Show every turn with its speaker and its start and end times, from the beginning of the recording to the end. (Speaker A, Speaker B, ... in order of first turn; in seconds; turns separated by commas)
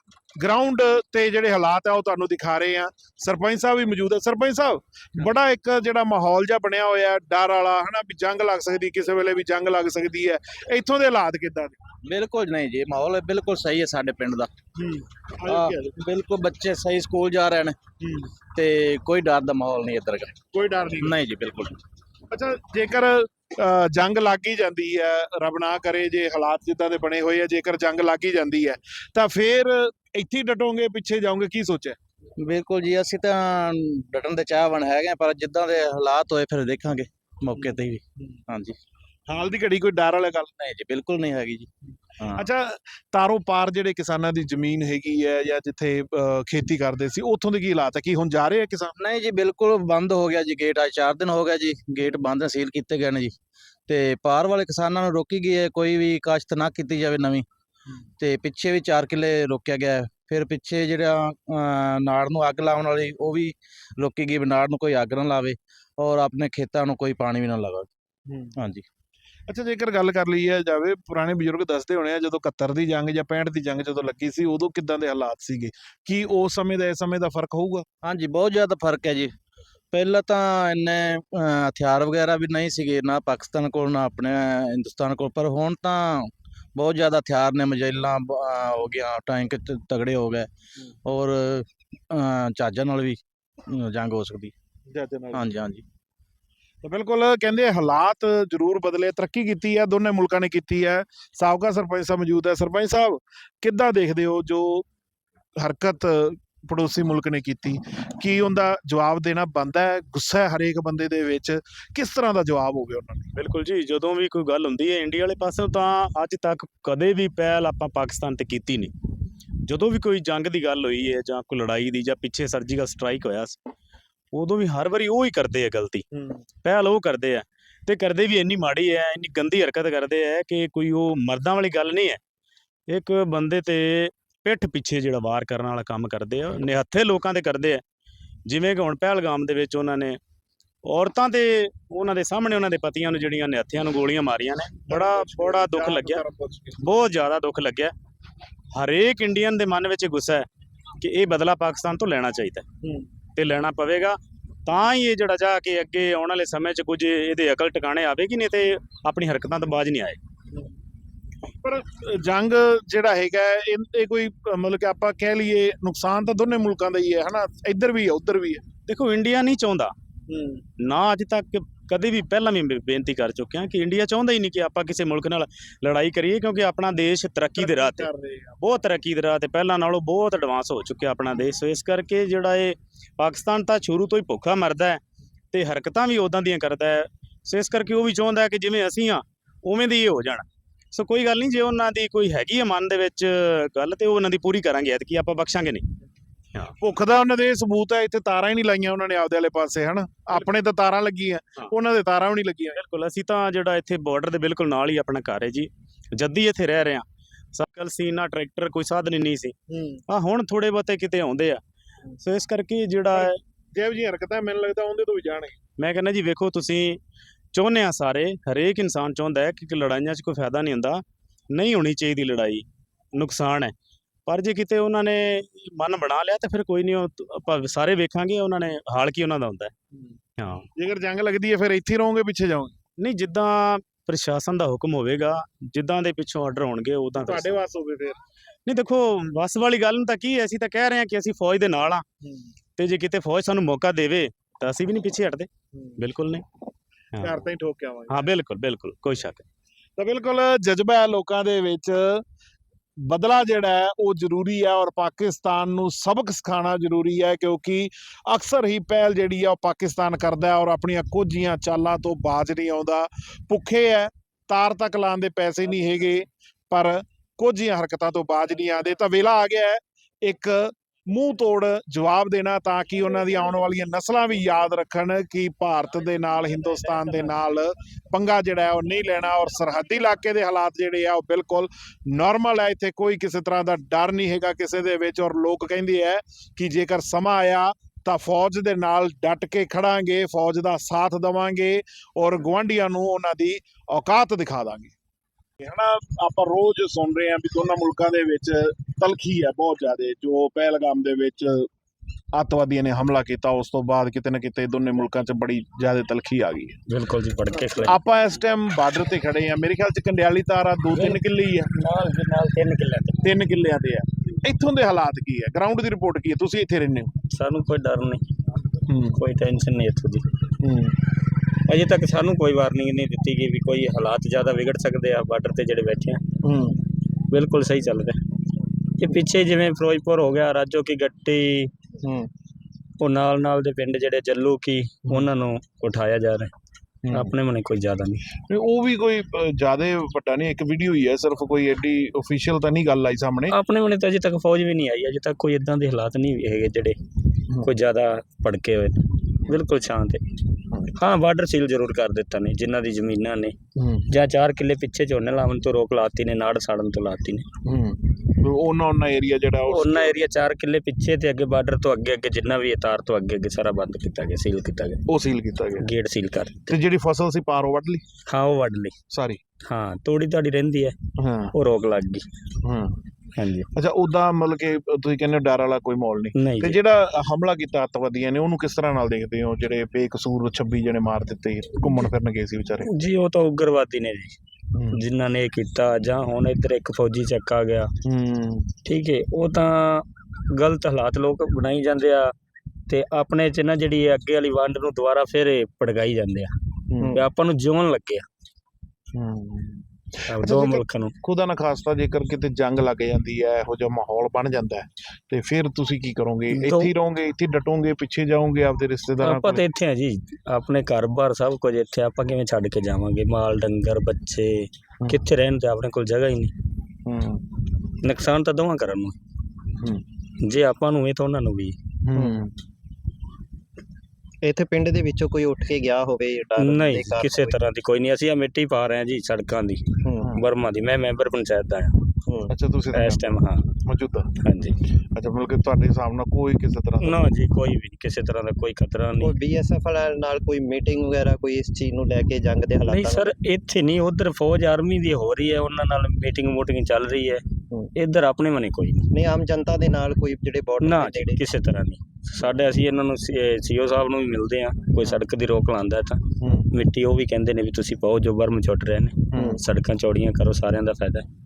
Speaker A: 0.4-11.8, Speaker B: 12.0-14.5, Speaker A: 14.8-16.0, Speaker B: 15.5-17.7, Speaker A: 18.0-18.3, Speaker B: 18.5-20.4, Speaker A: 20.5-21.2, Speaker B: 21.0-21.8, Speaker A: 22.3-32.0, Speaker B: 32.4-38.8, Speaker A: 37.5-37.9, Speaker A: 39.3-40.5, Speaker B: 40.6-41.7, Speaker A: 42.4-48.9, Speaker B: 49.0-53.3, Speaker B: 53.9-57.4, Speaker B: 58.2-67.9, Speaker A: 68.3-68.5, Speaker B: 68.6-68.8, Speaker A: 69.5-77.8, Speaker B: 78.0-79.3, Speaker B: 79.9-90.5, Speaker B: 91.0-93.2, Speaker B: 93.7-94.5, Speaker A: 94.9-95.5, Speaker B: 95.3-95.8, Speaker A: 96.8-104.8, Speaker A: 105.6-113.3, Speaker C: 113.3-118.9, Speaker C: 119.7-123.6, Speaker C: 124.3-126.0, Speaker A: 126.1-126.4, Speaker C: 126.6-132.2, Speaker C: 132.9-137.8, Speaker C: 138.5-140.2, Speaker C: 140.9-146.2, Speaker A: 144.9-146.9, Speaker C: 146.8-147.9, Speaker C: 148.7-150.4, Speaker C: 151.0-152.6, Speaker C: 153.4-160.2, Speaker A: 161.6-168.6, Speaker C: 168.9-169.9, Speaker A: 170.3-170.6, Speaker C: 170.8-178.1, Speaker A: 177.6-178.7, Speaker C: 178.6-185.0, Speaker C: 185.5-195.8, Speaker A: 196.8-202.8, Speaker C: 202.7-209.5, Speaker A: 209.7-210.0, Speaker C: 210.1-211.6, Speaker C: 212.2-213.4, Speaker A: 213.1-215.6, Speaker C: 215.8-217.0, Speaker C: 217.5-223.7, Speaker C: 224.3-229.7, Speaker C: 230.4-230.6, Speaker A: 230.8-232.7, Speaker C: 233.0-237.6, Speaker A: 237.2-238.2, Speaker C: 238.7-242.0, Speaker C: 242.8-245.5, Speaker A: 245.7-246.0, Speaker C: 246.0-246.4, Speaker C: 247.1-247.4, Speaker A: 247.2-248.3, Speaker C: 248.1-249.4, Speaker A: 250.0-252.2, Speaker A: 253.0-294.9, Speaker A: 295.6-301.7, Speaker A: 302.3-306.8, Speaker D: 306.9-308.0, Speaker A: 307.8-311.7, Speaker D: 310.9-311.2, Speaker D: 311.7-313.2, Speaker A: 313.2-317.1, Speaker D: 317.3-318.2, Speaker A: 318.9-319.2, Speaker D: 319.2-320.2, Speaker A: 320.6-320.9, Speaker D: 321.7-326.2, Speaker A: 326.4-326.8, Speaker D: 327.3-328.2, Speaker D: 329.0-331.7, Speaker A: 332.0-332.3, Speaker D: 333.0-336.5, Speaker A: 337.0-337.3, Speaker D: 337.1-338.2, Speaker A: 338.5-343.5, Speaker D: 343.5-347.0, Speaker D: 347.6-349.0, Speaker D: 349.5-350.2, Speaker D: 351.0-353.5, Speaker A: 353.8-354.1, Speaker D: 354.1-357.4, Speaker A: 357.6-360.2, Speaker D: 359.7-365.0, Speaker A: 365.1-365.8, Speaker D: 365.8-366.6, Speaker A: 366.7-368.0, Speaker D: 368.3-368.9, Speaker A: 369.1-369.4, Speaker D: 369.7-370.9, Speaker A: 371.2-371.5, Speaker D: 371.5-372.2, Speaker A: 372.6-373.0, Speaker D: 373.4-373.6, Speaker A: 373.7-382.9, Speaker D: 376.4-376.7, Speaker D: 382.9-384.4, Speaker A: 384.7-385.0, Speaker D: 384.9-387.9, Speaker A: 388.0-388.7, Speaker D: 388.8-392.3, Speaker D: 392.9-396.5, Speaker A: 396.9-397.2, Speaker E: 397.0-397.3, Speaker D: 397.1-398.2, Speaker A: 399.1-409.6, Speaker D: 400.3-401.1, Speaker D: 409.2-416.5, Speaker A: 417.1-417.4, Speaker D: 418.0-419.1, Speaker D: 420.4-421.7, Speaker A: 422.0-422.5, Speaker E: 422.1-422.4, Speaker E: 424.4-427.6, Speaker D: 426.6-431.9, Speaker E: 430.0-430.4, Speaker E: 432.3-432.5, Speaker A: 432.5-434.3, Speaker D: 432.9-433.6, Speaker D: 434.4-434.7, Speaker A: 435.1-437.2, Speaker D: 437.0-439.3, Speaker E: 439.2-443.3, Speaker D: 442.9-447.4, Speaker D: 448.0-449.0, Speaker E: 449.1-451.4, Speaker D: 450.8-456.2, Speaker A: 456.4-456.7, Speaker D: 456.7-461.2, Speaker A: 459.3-459.6, Speaker E: 459.3-459.6